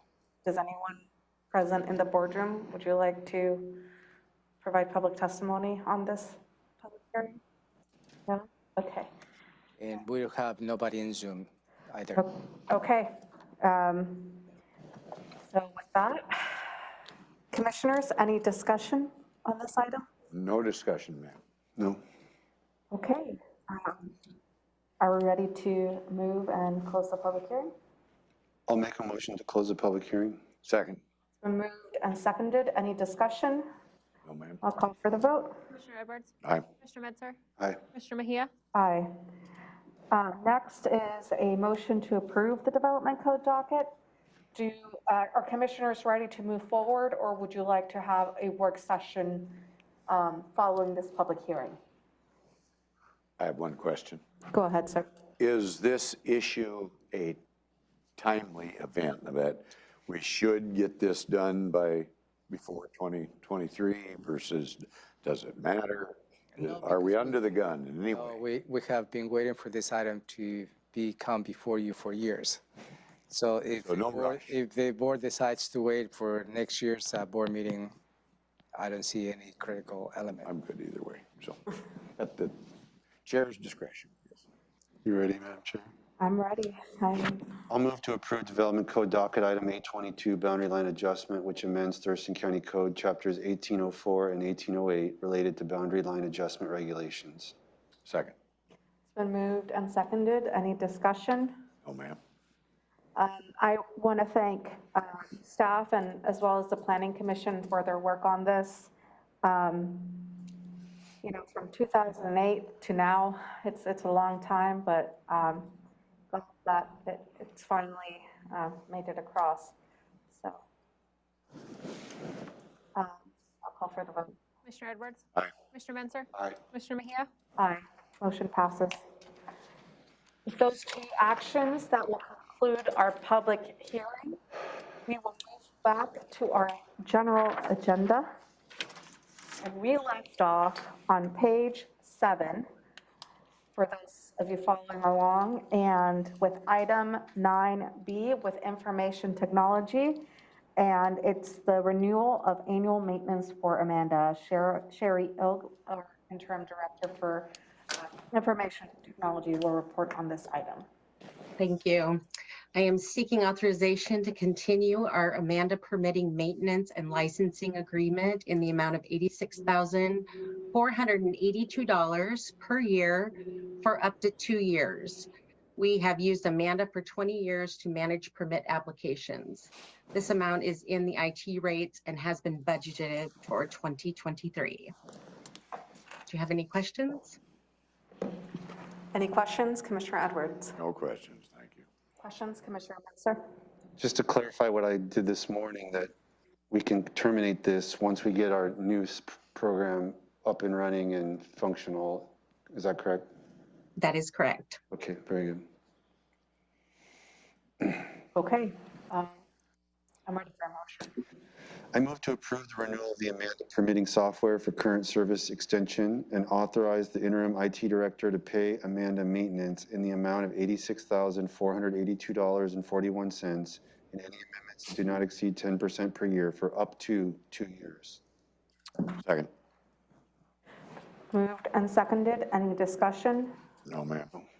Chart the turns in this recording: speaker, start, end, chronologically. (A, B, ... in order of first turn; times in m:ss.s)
0:00.4-0:03.8 A
0:04.6-0:07.4 A
0:08.3-0:09.1 A
0:09.8-0:12.2 B
0:12.2-0:14.4 A
0:15.5-0:16.8 A
0:17.5-0:20.0 A
0:20.3-0:21.4 C
0:22.9-0:24.1 A
0:25.0-0:27.7 A
0:28.7-0:30.4 D
0:30.6-0:31.0 C
0:31.4-0:33.6 A
0:34.2-0:34.6 C
0:34.6-0:35.6 A
0:35.7-0:37.4 E
0:37.9-0:38.5 E
0:38.7-0:39.1 A
0:40.1-0:43.9 A
0:44.5-0:51.8 A
0:53.4-0:54.2 C
0:54.5-0:55.1 A
0:55.4-0:57.4 C
0:58.2-1:08.4 C
1:06.6-1:07.6 B
1:08.1-1:12.6 B
1:13.3-1:18.0 B
1:13.8-1:14.5 C
1:18.8-1:20.5 B
1:20.4-1:21.6 C
1:22.2-1:22.6 C
1:23.2-1:24.4 C
1:25.0-1:25.9 D
1:26.2-1:27.5 A
1:27.7-1:37.5 D
1:38.0-1:38.3 C
1:39.1-1:41.6 A
1:41.8-1:42.2 C
1:43.2-1:48.9 A
1:49.4-1:50.6 A
1:51.2-1:55.8 A
1:56.3-1:59.7 A
2:00.3-2:00.6 A
2:02.9-2:04.4 A
2:04.6-2:07.3 E
2:07.6-2:09.0 A
2:10.5-2:14.4 A
2:15.0-2:18.2 A
2:19.6-2:22.6 A
2:23.7-2:30.2 A
2:30.8-2:40.8 A
2:41.6-2:42.2 F
2:42.7-3:04.9 F
3:06.3-3:07.4 F
3:09.1-3:10.8 A
3:10.8-3:11.8 C
3:12.2-3:13.4 A
3:14.0-3:16.1 D
3:16.7-3:23.2 D
3:24.0-3:24.8 F
3:24.9-3:25.6 D
3:28.3-3:29.4 A
3:30.3-3:31.2 A
3:31.9-3:48.2 D
3:49.2-3:49.5 C
3:51.3-3:53.5 A
3:53.8-3:54.3 C